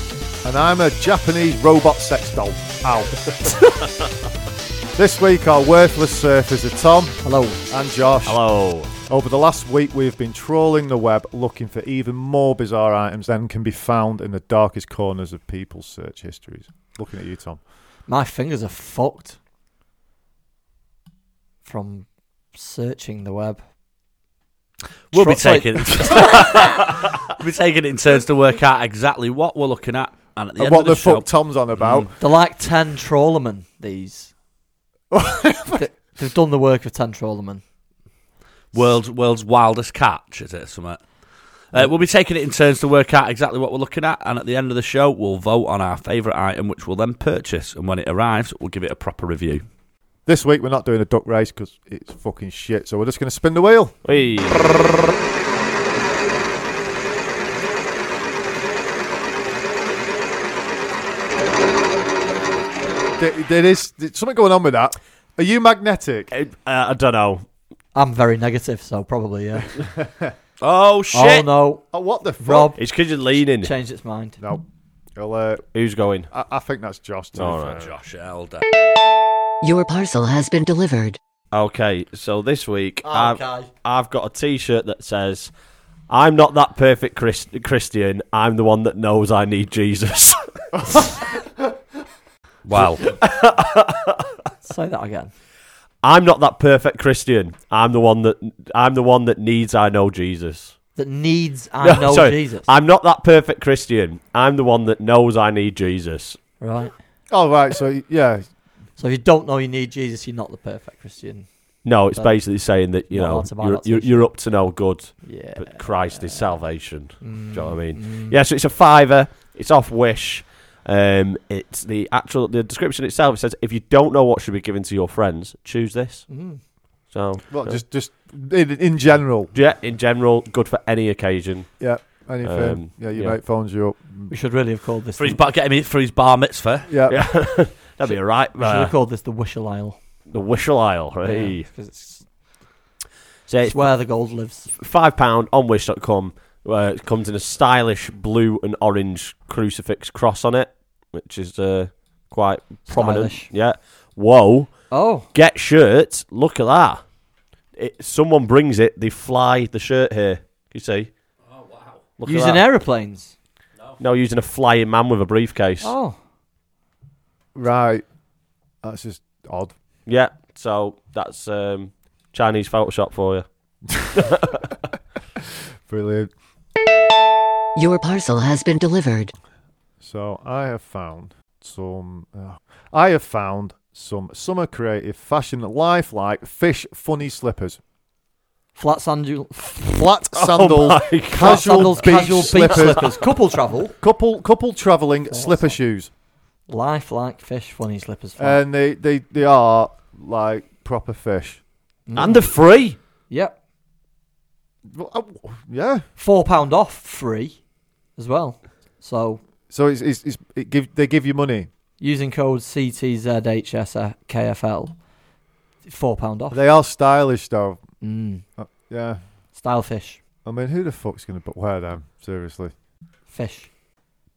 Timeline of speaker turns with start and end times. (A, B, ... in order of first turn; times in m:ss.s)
0:00.4-0:03.5 A
0:05.0-0:08.4 A
0:07.2-0:07.6 B
0:08.3-0:08.9 C
0:09.1-0:17.6 A
0:18.1-0:19.4 B
0:21.6-0:23.6 B
0:25.1-0:32.1 D
0:25.1-0:26.6 B
0:30.6-0:32.1 A
0:32.2-0:34.3 B
0:35.1-0:35.8 A
0:35.7-0:37.6 B
0:38.7-0:41.0 D
0:41.7-0:49.6 D
0:50.3-0:54.0 A
0:54.0-0:54.8 C
1:03.2-1:06.3 A
1:06.3-1:07.5 C
1:07.9-1:09.8 B
1:09.9-1:10.3 A
1:10.6-1:11.5 D
1:11.1-1:14.4 B
1:11.9-1:12.8 A
1:12.8-1:13.7 C
1:14.4-1:14.6 A
1:15.2-1:15.6 A
1:15.7-1:16.3 C
1:16.3-1:17.9 A
1:17.4-1:17.8 C
1:17.8-1:18.6 D
1:19.6-1:21.2 E
1:21.5-1:25.5 C
1:23.0-1:23.7 B
1:26.1-1:30.8 C
1:30.9-1:31.2 A
1:32.6-1:33.0 D
1:32.7-1:34.3 C
1:34.6-1:35.3 B
1:36.0-1:40.8 C
1:41.0-1:42.7 B
1:41.8-1:46.4 C
1:46.6-1:47.0 B
1:47.3-1:48.5 A
1:49.0-1:54.4 B
1:51.8-2:06.5 C
1:55.2-1:56.6 B
1:57.2-1:58.4 B
2:06.3-2:06.6 B
2:07.1-2:07.8 C
2:07.5-2:09.5 A
2:09.5-2:13.4 C
2:11.8-2:14.4 A
2:14.3-2:15.4 B
2:15.2-2:16.9 D
2:16.9-2:17.2 A
2:17.1-2:18.9 C
2:18.0-2:20.0 B
2:20.3-2:21.7 C
2:21.2-2:22.3 B
2:23.5-2:24.0 C
2:23.6-2:24.7 B
2:24.8-2:37.0 C
2:32.9-2:33.5 B
2:34.9-2:35.3 B
2:37.8-2:41.1 C
2:41.5-2:42.0 D
2:42.2-2:42.6 C
2:42.2-2:43.4 B
2:44.0-2:45.9 C
2:45.8-2:46.2 B
2:47.6-2:48.0 A
2:48.8-2:49.7 A
2:50.1-2:53.5 C
2:54.0-2:54.3 A
2:55.9-2:56.3 A
2:57.8-2:59.3 E
3:00.0-3:07.8 A
3:08.8-3:10.1 B
3:09.9-3:13.1 A
3:10.4-3:13.0 C
3:11.3-3:14.0 B
3:14.0-3:16.1 A
3:15.3-3:15.8 B
3:16.7-3:18.6 B
3:18.4-3:21.6 A
3:22.1-3:22.6 B
3:22.2-3:23.0 C
3:23.3-3:23.6 B
3:24.9-3:26.0 A
3:26.2-3:27.6 B
3:28.2-3:29.4 B
3:29.7-3:31.7 A
3:32.0-3:35.0 B
3:35.8-3:36.7 B
3:36.5-3:37.8 A
3:38.0-3:38.4 B
3:38.6-3:39.3 A
3:39.5-3:40.2 B
3:40.4-3:42.7 A
3:43.3-3:43.7 B